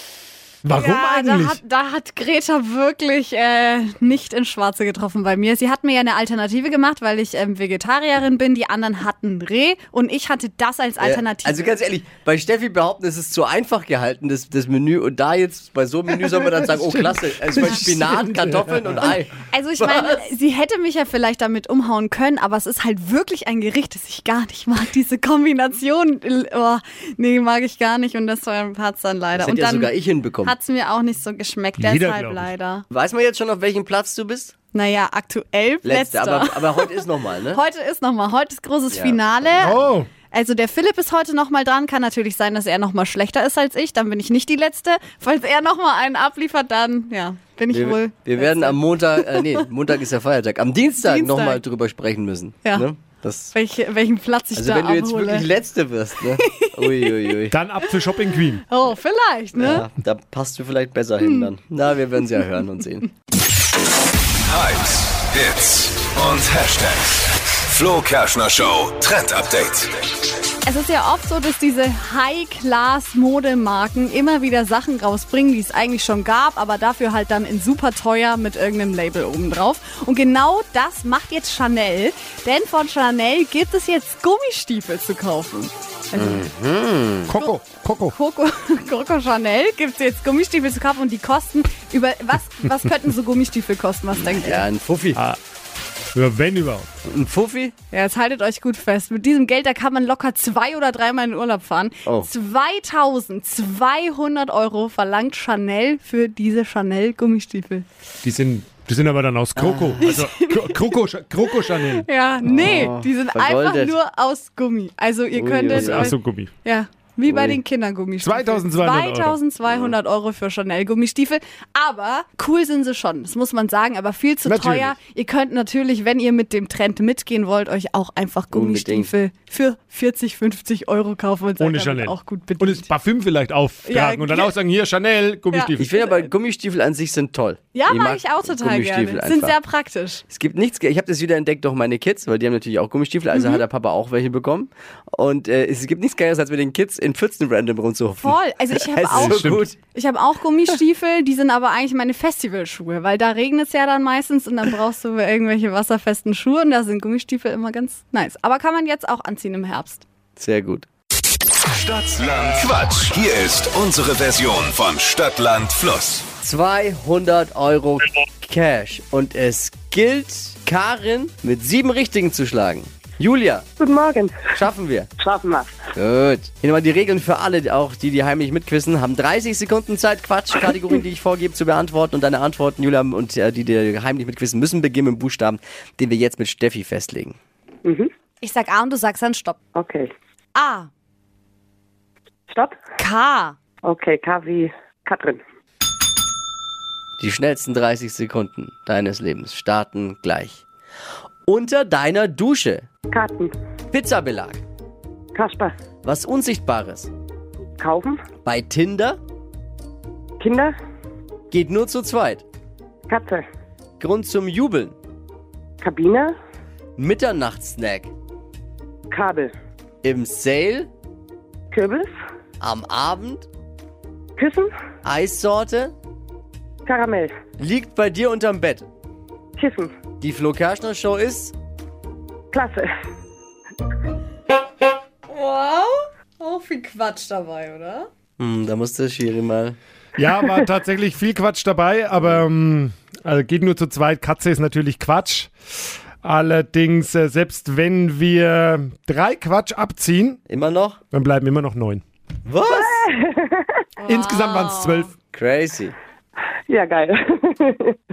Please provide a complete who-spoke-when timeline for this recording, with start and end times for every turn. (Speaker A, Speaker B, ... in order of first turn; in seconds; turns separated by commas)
Speaker A: 0.7-1.6, Speaker B: 0.8-11.8, Speaker C: 11.0-20.3, Speaker A: 16.8-18.9, Speaker B: 19.0-32.9, Speaker C: 29.4-30.6, Speaker A: 31.8-32.5, Speaker C: 32.9-34.5, Speaker B: 34.7-49.6, Speaker C: 35.8-37.6, Speaker C: 38.9-39.7, Speaker A: 39.6-40.1, Speaker C: 47.7-53.5, Speaker B: 51.0-51.6, Speaker B: 53.5-55.5, Speaker C: 54.5-57.6, Speaker B: 56.4-57.4, Speaker A: 57.5-58.6, Speaker B: 58.7-59.9, Speaker C: 59.5-63.1, Speaker B: 61.2-61.5, Speaker D: 64.5-70.0, Speaker B: 70.7-86.5, Speaker C: 86.2-87.3, Speaker A: 87.3-88.1, Speaker B: 87.4-94.7, Speaker C: 94.1-95.2, Speaker A: 96.2-96.9, Speaker C: 97.1-97.7, Speaker B: 97.9-107.9, Speaker A: 108.2-112.1, Speaker C: 109.6-110.1, Speaker B: 110.0-110.8, Speaker B: 111.5-132.9, Speaker C: 112.5-114.0, Speaker C: 115.3-116.1, Speaker A: 115.7-116.5, Speaker C: 117.3-117.6, Speaker A: 118.2-119.4, Speaker C: 119.7-120.0, Speaker A: 124.5-125.0, Speaker C: 128.5-129.1, Speaker A: 131.6-135.9, Speaker B: 133.8-134.5, Speaker B: 135.5-136.3, Speaker C: 135.8-139.6, Speaker B: 137.7-140.2, Speaker C: 140.3-149.8, Speaker B: 143.3-143.6, Speaker B: 148.2-160.1, Speaker A: 149.1-149.6, Speaker C: 160.4-160.9, Speaker D: 161.8-166.3, Speaker C: 166.4-173.7, Speaker E: 173.8-174.6, Speaker C: 174.5-175.1, Speaker E: 175.2-175.8, Speaker C: 176.0-187.4, Speaker E: 187.8-188.1, Speaker B: 188.4-189.6, Speaker E: 189.8-190.1, Speaker B: 190.6-190.9, Speaker E: 192.5-192.8, Speaker B: 193.0-193.6, Speaker E: 193.8-195.4, Speaker C: 197.2-200.6, Speaker C: 201.5-202.9, Speaker E: 203.1-203.5, Speaker C: 203.9-204.6, Speaker E: 205.3-205.7, Speaker C: 206.0-207.1, Speaker E: 207.8-208.2, Speaker C: 208.4-209.2, Speaker E: 210.4-210.8, Speaker C: 211.5-212.4, Speaker E: 213.1-213.4, Speaker C: 214.0-215.0, Speaker E: 215.8-216.4, Speaker C: 217.0-218.1, Speaker E: 219.1-219.5, Speaker C: 220.0-220.9, Speaker E: 221.7-222.1, Speaker C: 222.6-223.5, Speaker E: 224.4-224.7, Speaker C: 225.1-225.9, Speaker E: 226.9-227.3, Speaker C: 227.6-228.9, Speaker E: 229.6-229.9, Speaker C: 230.2-231.5, Speaker E: 232.5-232.9, Speaker B: 235.3-238.1, Speaker C: 238.4-239.8, Speaker A: 240.2-245.5, Speaker A: 246.2-250.4, Speaker C: 250.5-251.0, Speaker A: 251.1-252.0, Speaker C: 252.5-253.1, Speaker E: 252.7-253.6, Speaker B: 254.0-255.1, Speaker A: 254.1-255.1, Speaker C: 255.3-255.9, Speaker E: 256.7-257.9